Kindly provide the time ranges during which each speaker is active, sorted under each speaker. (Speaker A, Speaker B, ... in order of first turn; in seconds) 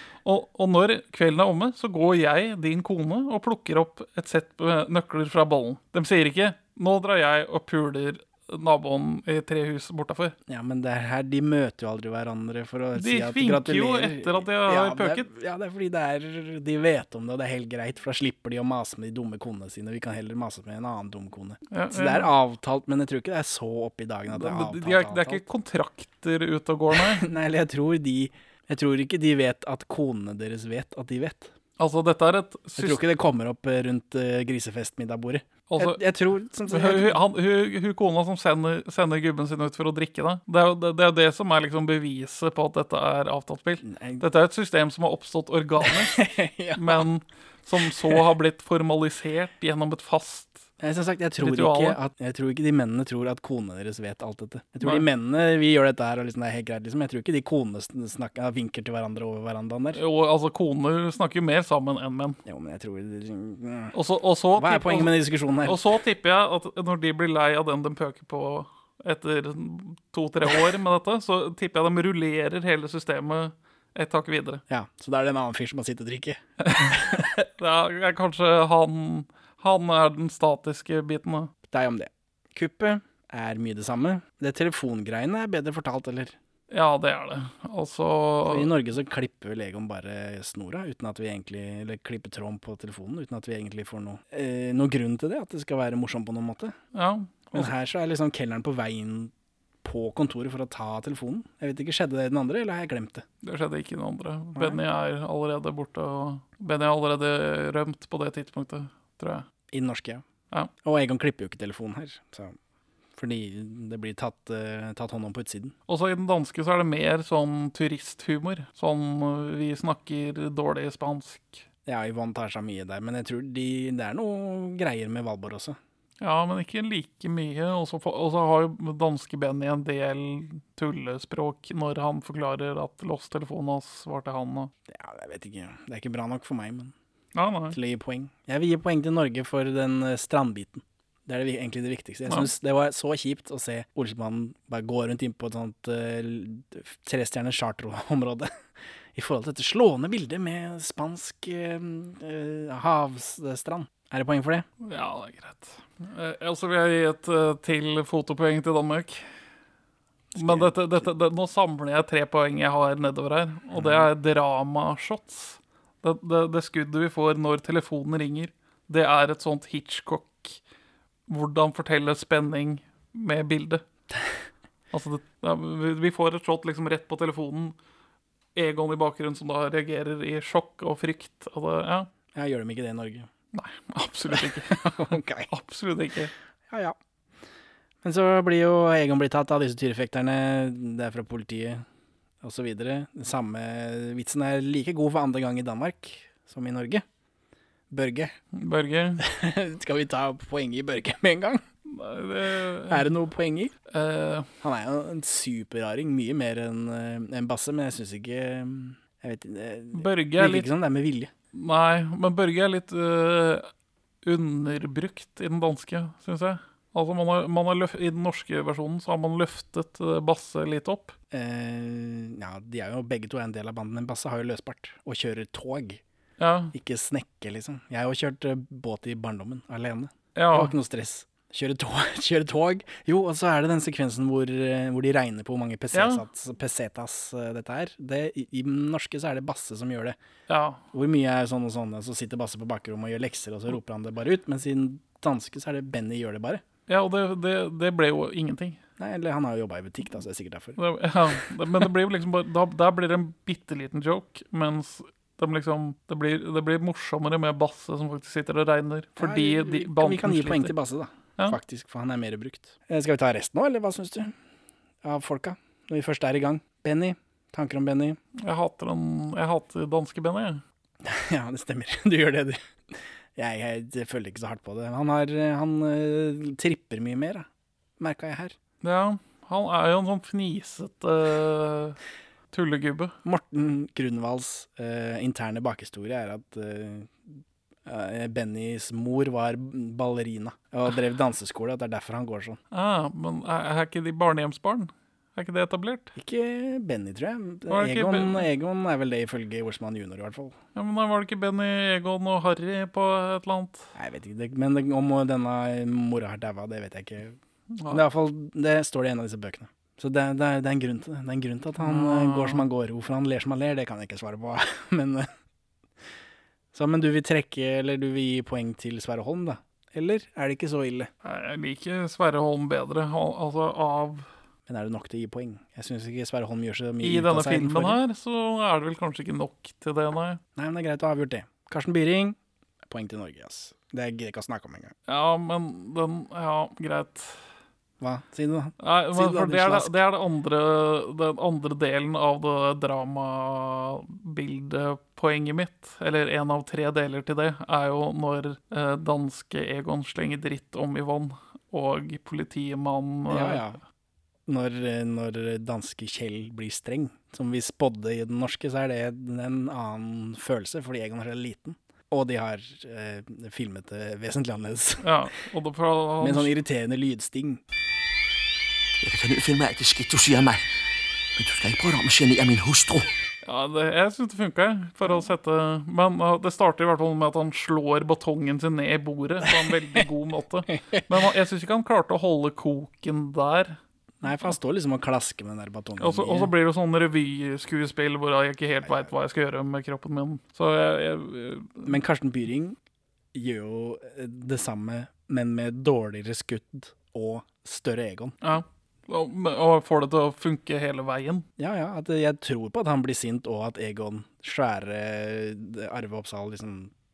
Speaker A: 0.2-10.3, 12.9-15.3, 21.7-22.3, 24.3-27.2, 31.8-33.0, 35.7-36.0, 36.7-50.7, 51.4-52.0, 59.9-62.4, 63.9-74.6, 76.6-81.5, 86.7-88.7, 96.9-97.7, 103.4-109.5, 115.9-121.7, 126.2-134.7, 137.3-137.8, 154.8-159.2, 160.3-170.6, 171.3-173.8, 174.9-177.8, 178.6-182.1, 183.5-186.3, 198.5-199.2, 201.9-203.1, 203.9-204.5, 209.9-210.7, 211.5-213.7, 214.2-221.2, 226.4-226.8, 230.3-230.7, 235.9-236.2, 240.5-240.8, 246.9-248.8, 250.8-260.8, 268.4-270.6, 278.8-282.0, 282.5-283.1, 292.7-296.1, 297.7-298.5, 300.8-303.9, 307.8-308.0, 311.8-312.6, 321.2-324.3, 327.0-330.4, 335.1-337.4, 338.8-353.6, 365.0-366.5, 373.4-383.8, 386.0-392.0, 398.4-401.4
Speaker B: 10.5-25.4, 26.9-31.5, 32.8-37.2, 43.8-44.2, 45.8-47.1, 47.8-48.2, 50.8-60.0, 62.5-64.0, 64.5-65.9, 74.7-77.2, 81.7-86.3, 88.5-96.8, 97.5-99.3, 99.8-103.2, 104.5-104.8, 109.7-110.2, 110.8-112.6, 113.2-115.8, 121.9-125.8, 134.9-136.9, 137.7-148.5, 149.2-154.7, 160.3-161.1, 163.7-164.1, 182.3-183.3, 184.3-185.5, 186.7-187.0, 188.0-191.8, 192.4-197.0, 197.9-198.3, 199.2-201.6, 202.9-203.7, 204.6-211.3, 221.3-226.0, 226.7-240.2, 240.9-246.6, 249.0-250.8, 251.3-251.8, 259.2-264.3, 265.0-268.2, 271.0-272.6, 273.4-277.5, 278.0-278.6, 283.2-292.6, 296.2-300.6, 303.9-315.3, 316.7-321.1, 324.7-328.0, 330.6-332.4, 332.9-334.9, 338.0-339.9, 353.3-353.8, 354.5-365.1, 366.2-367.6, 379.5-380.0, 380.7-381.1, 384.2-386.5, 391.9-392.8, 393.3-398.4, 401.6-406.9
Speaker C: 369.0-370.6, 371.4-373.1